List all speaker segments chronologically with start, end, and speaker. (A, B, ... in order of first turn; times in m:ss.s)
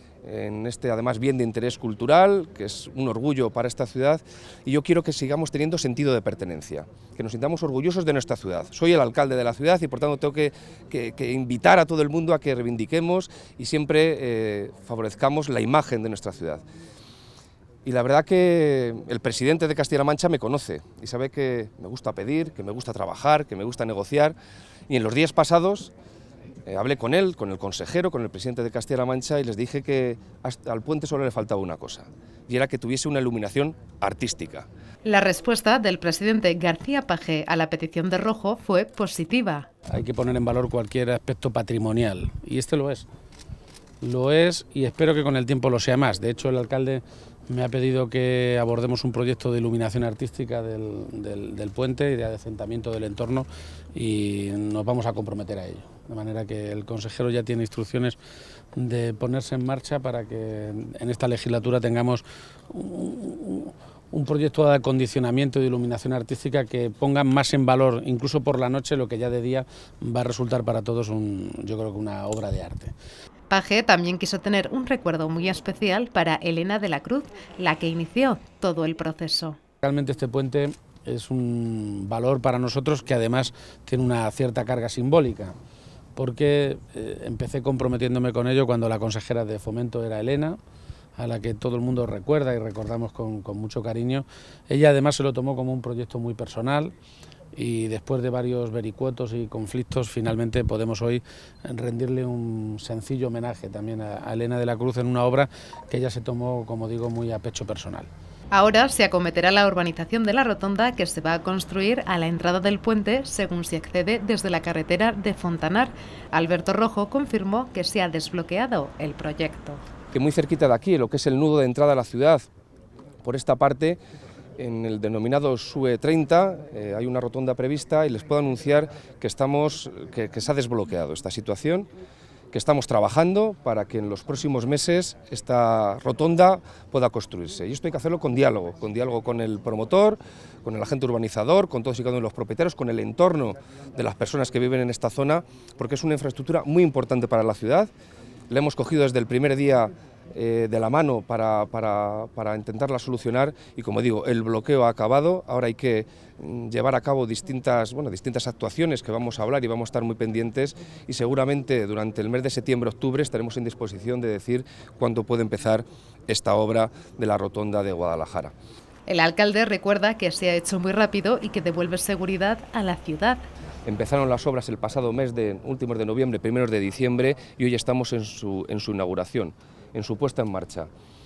0:00.2-0:16.6 A
0:17.8-0:24.3 A
0:24.9-0:25.9 A
0:26.6-0:34.7 A
0:35.0-0:39.7 B
0:39.9-0:43.0 C
0:44.0-0:58.2 C
0:58.8-1:12.9 C
1:13.5-1:19.6 B
1:19.8-1:25.5 C
1:26.2-1:30.6 C
1:31.2-1:36.9 C
1:37.5-1:48.1 C
1:48.5-1:59.8 B
2:00.1-2:02.5 A
2:03.2-2:04.0 A
2:04.6-2:11.9 A
2:12.5-2:27.9 A
2:28.5-2:48.5 A
2:49.1-2:53.4 B
2:53.8-3:00.9 A